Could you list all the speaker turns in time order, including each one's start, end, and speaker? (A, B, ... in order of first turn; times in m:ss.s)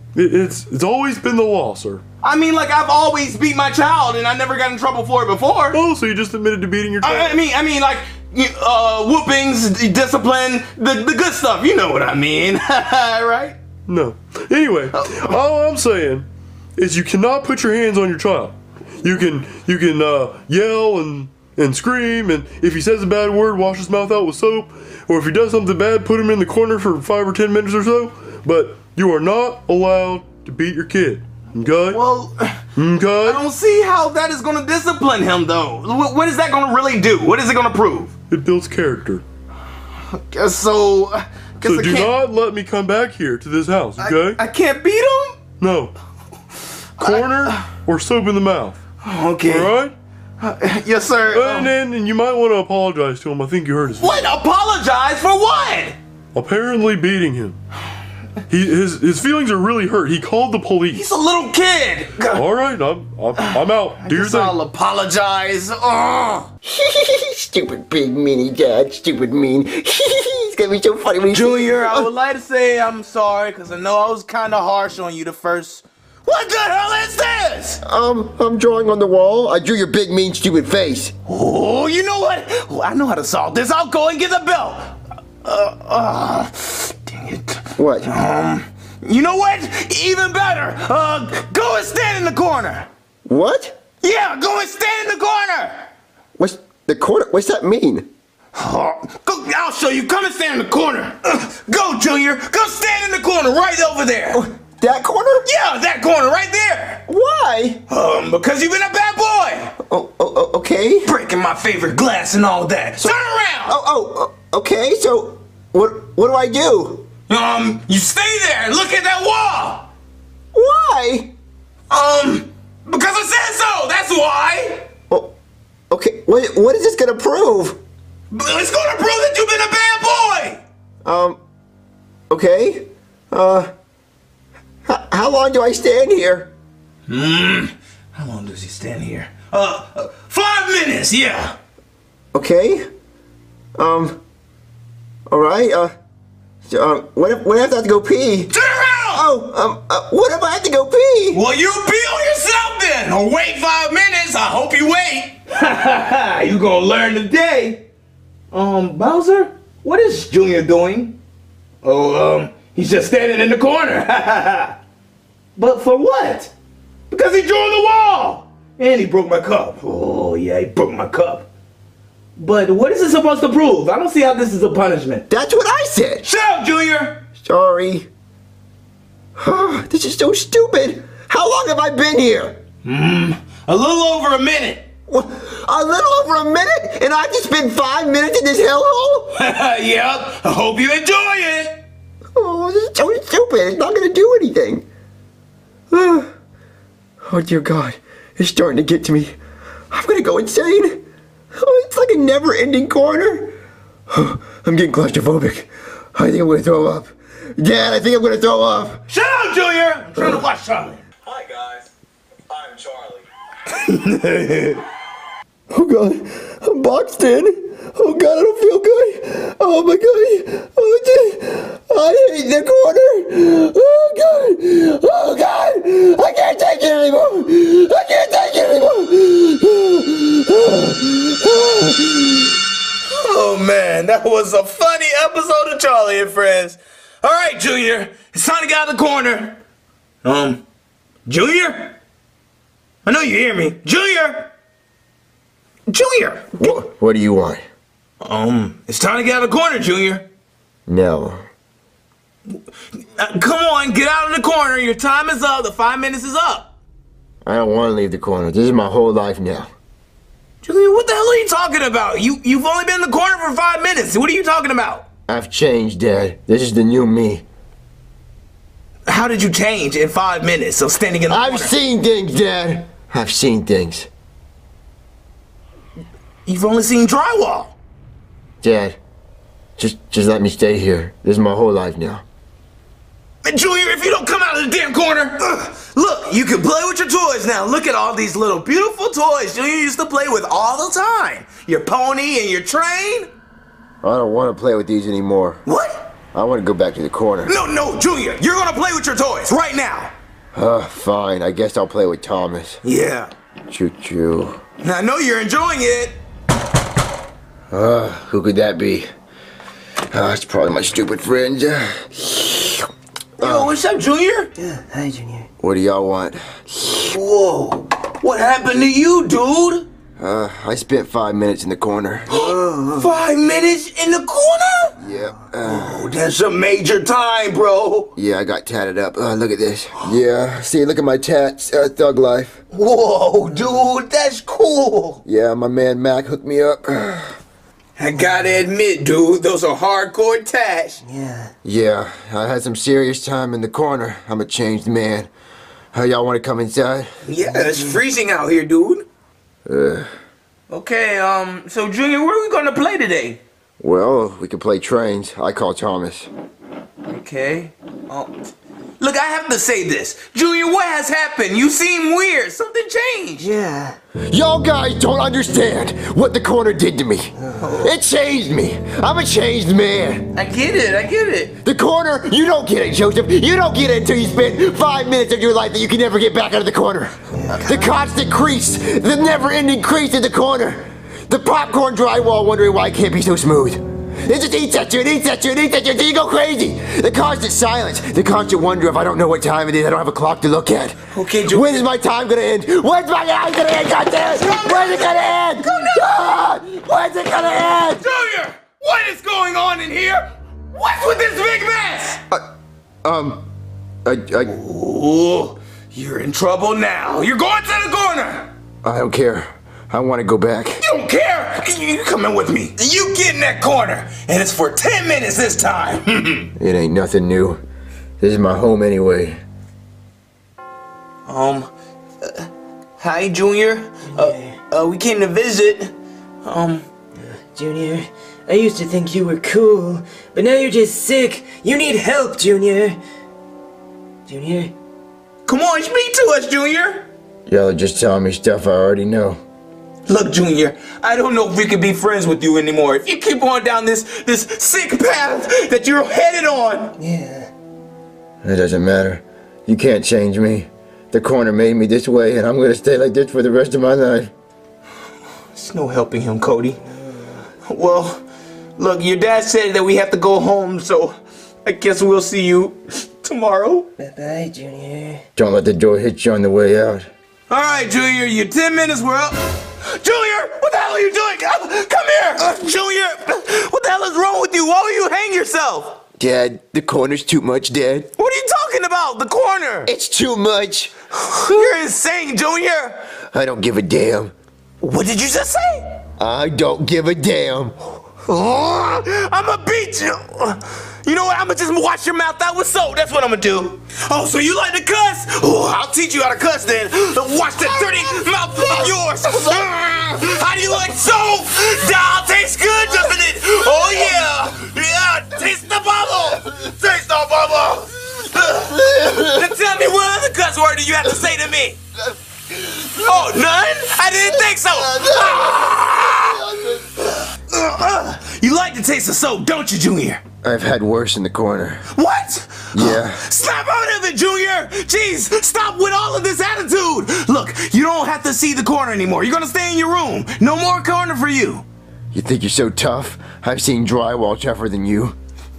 0:00.1-0:02.0 A
0:02.2-0:05.8 B
0:05.7-0:07.4 A
0:07.0-0:13.6 B
0:13.9-0:32.0 A
0:14.9-0:15.4 B
0:31.9-0:38.1 B
0:32.8-0:33.4 A
0:38.3-0:39.2 A
0:40.1-0:42.2 B
0:41.6-0:44.4 A
0:44.0-0:45.4 B
0:45.6-0:45.9 A
0:47.0-0:47.6 B
0:47.0-0:48.8 A
0:49.0-0:49.7 B
0:49.4-0:49.9 A
0:50.4-0:51.7 B
0:51.3-0:54.4 A
0:54.0-0:56.0 B
0:56.3-0:57.6 A
0:58.5-1:01.0 A
1:00.9-1:02.4 B
1:02.3-1:04.5 A
1:03.4-1:06.5 B
1:06.6-1:12.1 C
1:11.3-1:17.8 B
1:17.8-1:21.1 C
1:21.2-1:32.9 B
1:27.8-1:28.1 C
1:33.3-1:33.8 C
1:34.0-1:35.9 B
1:36.4-1:38.1 C
1:38.5-1:44.4 B
1:44.3-1:45.5 C
1:45.4-1:47.0 B
1:47.1-1:47.8 C
1:47.9-1:49.7 B
1:49.8-1:51.1 C
1:51.0-1:53.8 B
1:53.0-1:57.0 C
1:57.3-1:59.9 B
2:00.5-2:01.3 C
2:01.9-2:04.8 B
2:05.9-2:07.8 C
2:08.3-2:10.6 B
2:11.0-2:11.4 C
2:12.3-2:13.7 C
2:14.8-2:16.5 C
2:17.1-2:21.6 B
2:22.3-2:22.8 C
2:23.8-2:24.2 C
2:25.3-2:25.9 C
2:26.6-2:28.5 C
2:28.5-2:29.3 B
2:29.1-2:31.4 C
2:31.3-2:37.8 B
2:38.5-2:41.2 B
2:41.8-2:44.8 B
2:45.5-2:46.5 B
2:47.1-2:51.5 B
2:52.4-2:55.2 B
2:55.3-2:56.2 C
2:56.2-2:57.2 B
2:57.4-2:58.1 C
2:59.4-3:02.6 C
3:02.8-3:04.9 B
3:05.1-3:09.3 C
3:09.3-3:11.8 B
3:12.3-3:14.8 C
3:15.9-3:16.3 C
3:17.2-3:19.3 C
3:19.9-3:21.0 C
3:21.6-3:23.5 C
3:24.1-3:29.0 C
3:29.1-3:31.0 B
3:31.4-3:31.8 C
3:33.7-3:34.8 B
3:35.7-3:52.3 C
3:53.0-3:59.6 B
4:00.2-4:00.6 B
4:01.2-4:02.0 B
4:03.0-4:04.5 B
4:05.9-4:06.8 B
4:06.6-4:07.6 C
4:08.2-4:10.3 B
4:10.9-4:11.4 C
4:13.2-4:16.7 B
4:17.4-4:19.7 C
4:20.6-4:25.0 B
4:25.3-4:27.4 C
4:29.1-4:31.7 B
4:31.3-4:34.1 C
4:36.4-4:37.8 B
4:38.6-4:39.0 C
4:39.8-4:42.2 C
4:43.4-4:53.3 B
4:54.0-4:55.6 C
4:55.6-4:56.1 B
4:56.3-4:57.5 C
4:57.4-5:00.1 B
5:00.5-5:02.8 C
5:02.8-5:03.3 B
5:03.7-5:04.6 C
5:04.8-5:06.2 B
5:07.7-5:09.1 C
5:10.1-5:12.9 C
5:13.4-5:14.5 B
5:13.4-5:13.7 C
5:14.6-5:15.5 D
5:15.6-5:17.0 C
5:17.0-5:19.9 B
5:20.2-5:22.3 C
5:22.3-5:25.0 B
5:22.4-5:23.0 D
5:25.0-5:26.1 C
5:25.6-5:28.1 B
5:28.2-5:32.6 C
5:32.7-5:35.2 B
5:35.2-5:37.4 C
5:38.0-5:41.0 B
5:41.0-5:41.5 D
5:41.6-5:45.3 C
5:45.9-5:47.1 C
5:47.2-5:49.0 B
5:49.6-5:50.1 C
5:50.7-5:53.4 B
5:53.8-5:56.3 C
5:57.0-5:58.3 B
5:59.0-6:03.5 B
6:03.4-6:04.0 D
6:04.3-6:10.3 C
6:07.6-6:08.0 B
6:10.3-6:11.6 B
6:11.6-6:38.0 C
6:17.5-6:17.8 B
6:31.1-6:31.9 B
6:34.4-6:36.2 B
6:37.9-6:42.2 B
6:43.0-6:43.4 C
6:44.0-6:44.5 C
6:44.5-6:48.5 B
6:48.8-6:50.8 C
6:50.8-6:56.5 B
6:56.6-6:57.6 C
6:58.2-6:59.4 C
7:01.3-7:01.7 B
7:02.2-7:06.9 B
7:04.2-7:04.5 D
7:07.5-7:13.0 D
7:14.3-7:14.7 D
7:15.4-7:17.1 B
7:17.5-7:19.4 C
7:20.1-7:27.0 B
7:27.0-7:27.5 D
7:28.4-7:34.3 C
7:35.5-7:36.8 B
7:37.6-7:38.2 B
7:38.8-7:43.9 B
7:44.0-7:45.2 D
7:45.4-7:47.1 C
7:47.5-7:56.0 B
7:56.2-7:58.1 C
7:58.2-7:59.9 B
7:59.8-8:00.9 C
8:01.2-8:03.1 B
8:03.3-8:04.3 C
8:04.8-8:05.9 B
8:06.2-8:07.8 C
8:08.2-8:31.8 B
8:32.6-8:40.2 B
8:34.5-8:36.8 C
8:40.4-8:41.8 C
8:41.9-8:51.6 B
8:42.7-8:43.2 C
8:52.1-8:55.2 C